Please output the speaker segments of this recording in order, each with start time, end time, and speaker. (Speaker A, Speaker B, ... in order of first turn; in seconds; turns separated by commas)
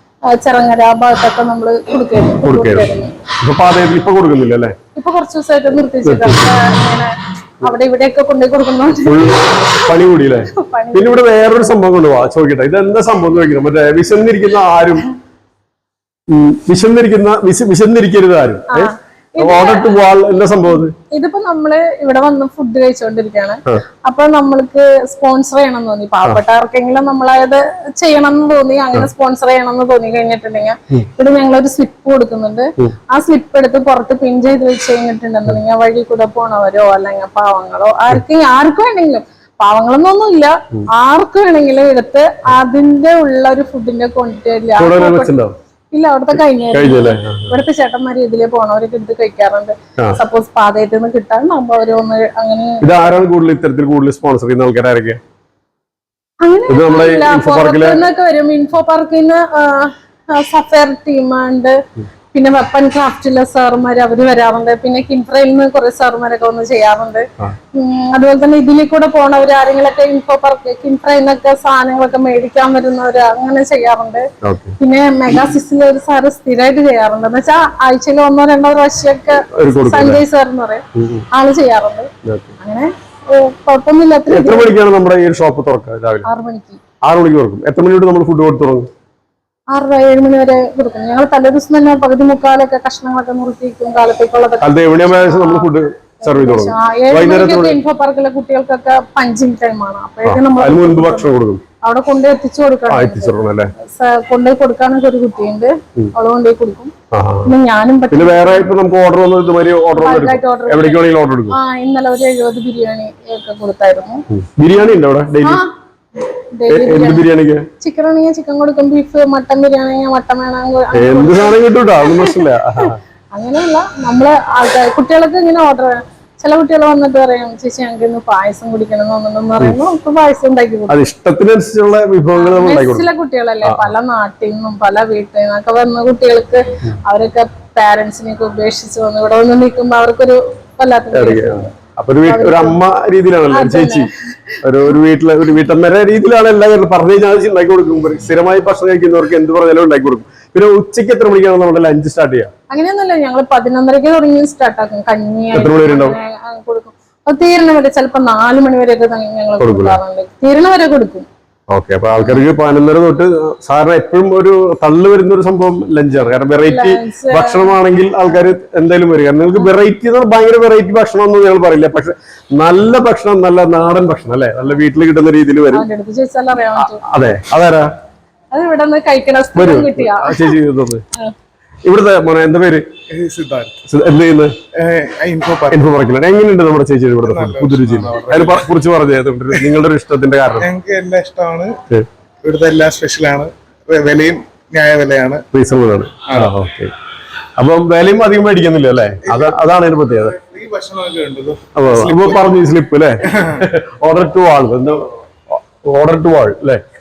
Speaker A: 0.3-3.1, Speaker B: 2.4-2.9, Speaker B: 3.4-4.8, Speaker A: 5.0-10.0, Speaker B: 6.0-6.5, Speaker B: 8.9-15.1, Speaker A: 10.6-11.4, Speaker B: 16.3-20.9, Speaker A: 18.7-19.9, Speaker A: 21.1-45.3, Speaker B: 44.8-45.5, Speaker A: 45.9-52.8, Speaker B: 46.7-47.5, Speaker B: 52.8-55.2, Speaker A: 56.4-61.8, Speaker B: 56.7-58.0, Speaker A: 62.3-74.2, Speaker B: 74.4-74.7, Speaker A: 74.8-82.1, Speaker B: 79.6-80.2, Speaker B: 81.0-81.2, Speaker B: 82.2-82.5, Speaker A: 82.6-84.7, Speaker B: 84.3-86.3, Speaker A: 86.2-86.8, Speaker B: 87.0-88.9, Speaker A: 89.7-95.7, Speaker B: 94.6-97.8, Speaker A: 96.2-101.3, Speaker B: 100.2-101.6, Speaker A: 101.8-106.9, Speaker B: 102.9-103.7, Speaker B: 107.1-107.5, Speaker A: 107.5-108.7, Speaker B: 108.1-111.6, Speaker A: 110.0-114.2, Speaker B: 114.3-115.6, Speaker A: 116.6-117.2, Speaker B: 116.7-117.7, Speaker A: 117.8-122.4, Speaker B: 120.9-123.0, Speaker A: 123.3-131.0, Speaker B: 130.9-133.1, Speaker A: 132.3-141.6, Speaker B: 133.6-133.9, Speaker B: 141.1-144.1, Speaker A: 142.3-142.8, Speaker A: 143.5-144.1, Speaker B: 144.6-152.5, Speaker A: 152.7-161.3, Speaker B: 155.5-156.2, Speaker B: 159.6-160.0, Speaker B: 161.7-175.8, Speaker A: 166.7-167.8, Speaker A: 175.7-177.0, Speaker B: 176.8-177.9, Speaker A: 178.5-180.5, Speaker B: 179.6-181.0, Speaker B: 181.8-182.8, Speaker C: 183.1-183.7, Speaker B: 183.9-184.5, Speaker C: 184.8-185.8, Speaker B: 185.7-190.7, Speaker C: 187.2-188.7, Speaker C: 190.6-191.7, Speaker C: 192.4-195.4, Speaker B: 195.5-196.9, Speaker B: 197.6-200.3, Speaker C: 200.3-202.5, Speaker B: 201.8-205.0, Speaker B: 205.6-206.8